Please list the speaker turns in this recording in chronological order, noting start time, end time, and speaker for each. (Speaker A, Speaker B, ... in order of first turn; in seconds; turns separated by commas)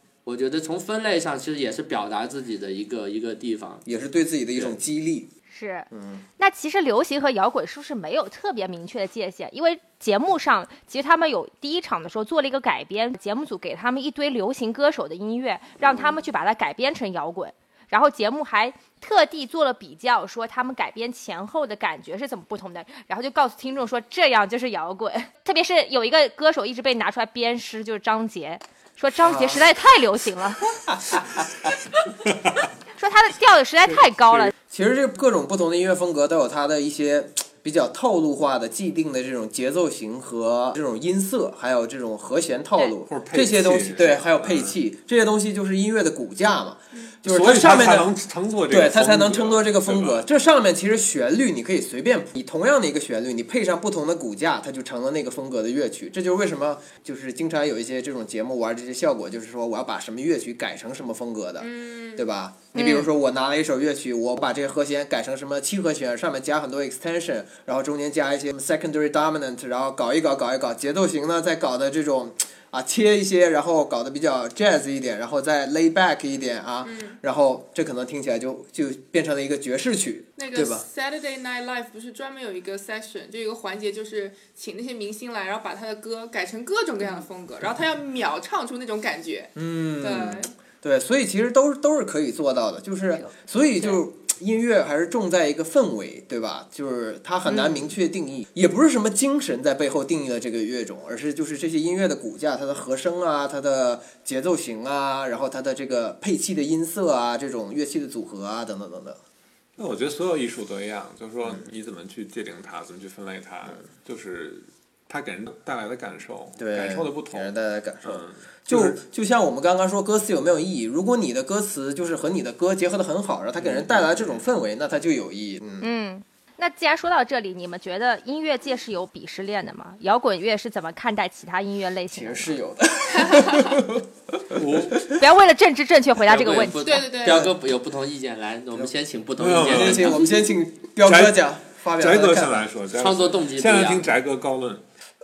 Speaker A: 0.2-3.8, Speaker B: 3.9-5.3, Speaker C: 5.5-30.7, Speaker B: 5.9-6.2, Speaker B: 15.8-16.1, Speaker B: 29.2-29.6, Speaker B: 30.9-31.4, Speaker C: 33.0-34.5, Speaker B: 34.7-48.1, Speaker D: 43.1-44.8, Speaker D: 47.2-50.3, Speaker B: 48.7-80.8, Speaker E: 61.6-62.3, Speaker C: 62.7-63.1, Speaker E: 76.8-77.2, Speaker E: 80.4-90.5, Speaker B: 89.5-109.2, Speaker D: 109.8-117.5, Speaker B: 116.6-125.9, Speaker D: 118.0-119.0, Speaker D: 123.7-124.3, Speaker C: 125.8-132.5, Speaker B: 132.1-135.0, Speaker D: 134.5-135.0, Speaker C: 135.2-137.1, Speaker A: 136.3-140.2, Speaker E: 136.8-137.5, Speaker D: 139.4-140.2, Speaker B: 139.6-142.7, Speaker D: 141.0-141.4, Speaker D: 142.0-144.8, Speaker A: 143.0-144.1